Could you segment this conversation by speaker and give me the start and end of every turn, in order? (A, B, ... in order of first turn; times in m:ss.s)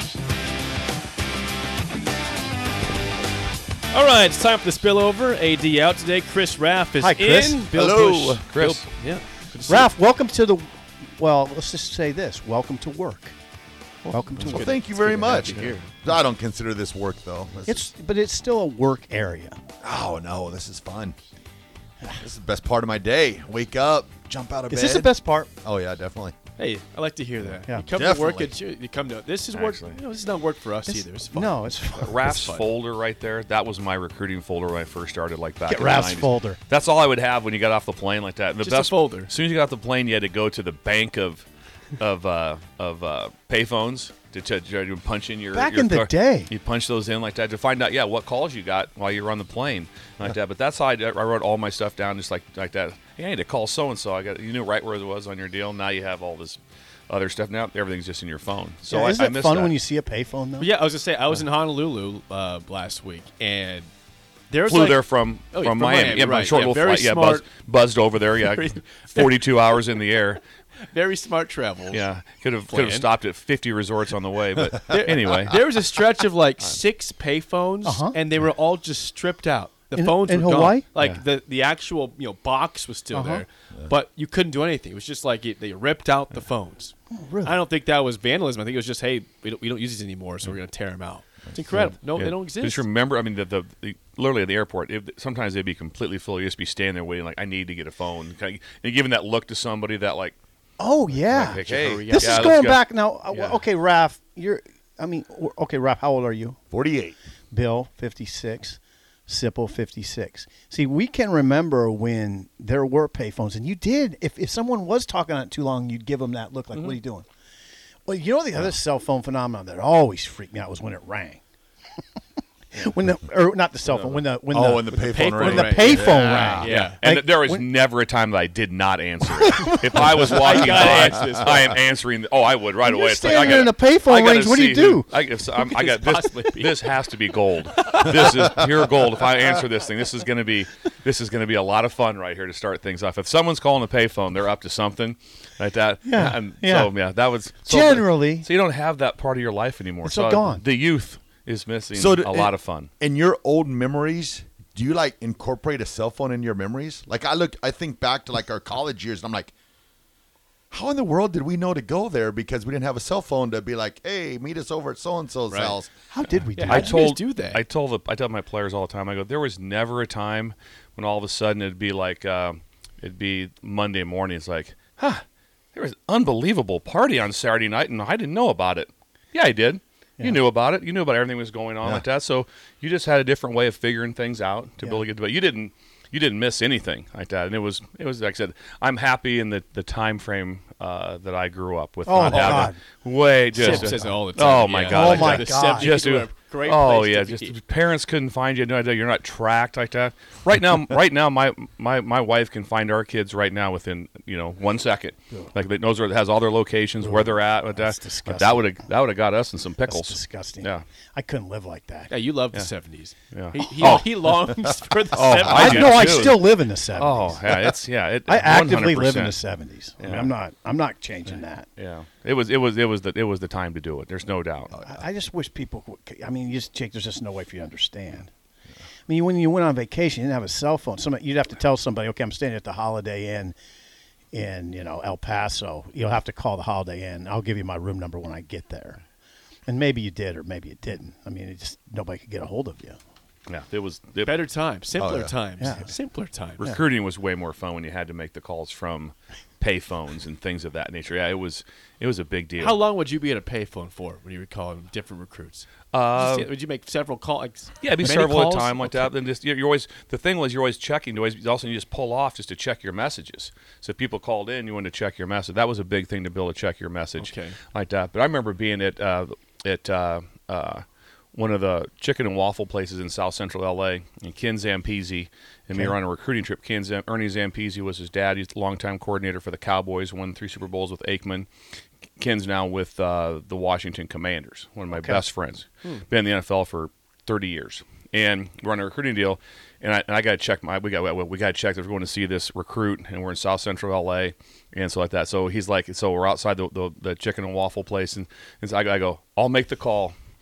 0:03.9-0:07.9 A
0:07.0-0:08.4 B
0:07.7-0:08.4 C
0:08.4-0:08.8 D
0:08.6-0:09.9 A
0:09.7-0:13.3 B
0:14.0-0:15.9 A
0:14.1-0:14.8 B
0:14.4-0:17.9 C
0:17.6-0:19.6 B
0:19.8-0:21.2 C
0:22.1-0:26.4 C
0:24.7-0:25.5 B
0:26.6-0:32.7 A
0:27.9-0:28.5 C
0:29.5-0:30.0 D
0:30.9-0:32.5 B
0:31.9-0:41.4 D
0:35.7-0:36.6 B
0:38.6-0:39.3 A
0:42.0-0:59.7 D
0:45.5-0:46.5 B
0:58.9-1:00.7 B
1:00.6-1:03.9 A
1:04.5-1:07.5 A
1:04.6-1:10.4 D
1:08.3-1:09.8 A
1:10.8-1:12.1 A
1:11.9-1:15.6 D
1:12.7-1:13.1 A
1:14.9-1:32.8 A
1:17.8-1:18.2 B
1:19.9-1:21.2 B
1:23.1-1:23.4 B
1:27.1-1:27.5 B
1:32.1-1:40.4 D
1:40.8-1:46.6 B
1:41.3-1:43.6 D
1:41.6-1:42.6 A
1:46.7-1:47.2 C
1:47.5-1:57.2 B
1:56.7-1:57.0 D
1:58.0-2:01.4 B
2:02.7-2:07.6 B
2:03.9-2:04.2 D
2:04.5-2:06.7 C
2:05.0-2:07.0 A
2:06.6-2:32.9 D
2:09.4-2:11.1 B
2:10.2-2:11.8 A
2:12.8-2:15.1 B
2:15.6-2:19.3 A
2:26.0-2:26.9 B
2:27.6-2:28.5 B
2:30.0-2:30.6 B
2:31.9-2:39.5 C
2:40.7-2:45.9 C
2:45.5-2:45.8 A
2:46.1-2:47.0 B
2:46.6-2:47.6 A
2:46.6-2:55.2 D
2:55.7-3:30.8 D
3:12.0-3:12.8 B
3:12.3-3:12.7 A
3:13.6-3:14.2 B
3:13.6-3:17.5 A
3:14.9-3:15.9 B
3:27.0-3:28.9 B
3:29.8-3:32.1 B
3:32.1-3:36.3 A
3:33.3-3:34.2 D
3:35.1-3:39.4 D
3:35.1-3:37.5 B
3:35.3-3:35.8 C
3:38.3-3:41.7 B
3:40.0-3:40.3 D
3:41.8-3:44.7 D
3:44.7-3:45.0 C
3:44.8-3:48.3 B
3:49.0-3:53.6 B
3:54.3-3:59.0 B
3:59.7-4:03.0 B
4:03.5-4:04.4 D
4:04.2-4:06.7 A
4:05.0-4:05.4 C
4:05.6-4:05.9 B
4:06.6-4:12.8 D
4:12.6-4:19.1 A
4:15.9-4:16.5 D
4:17.8-4:30.8 D
4:27.2-4:27.6 A
4:31.3-4:41.5 D
4:42.2-5:00.1 D
4:44.9-4:45.2 B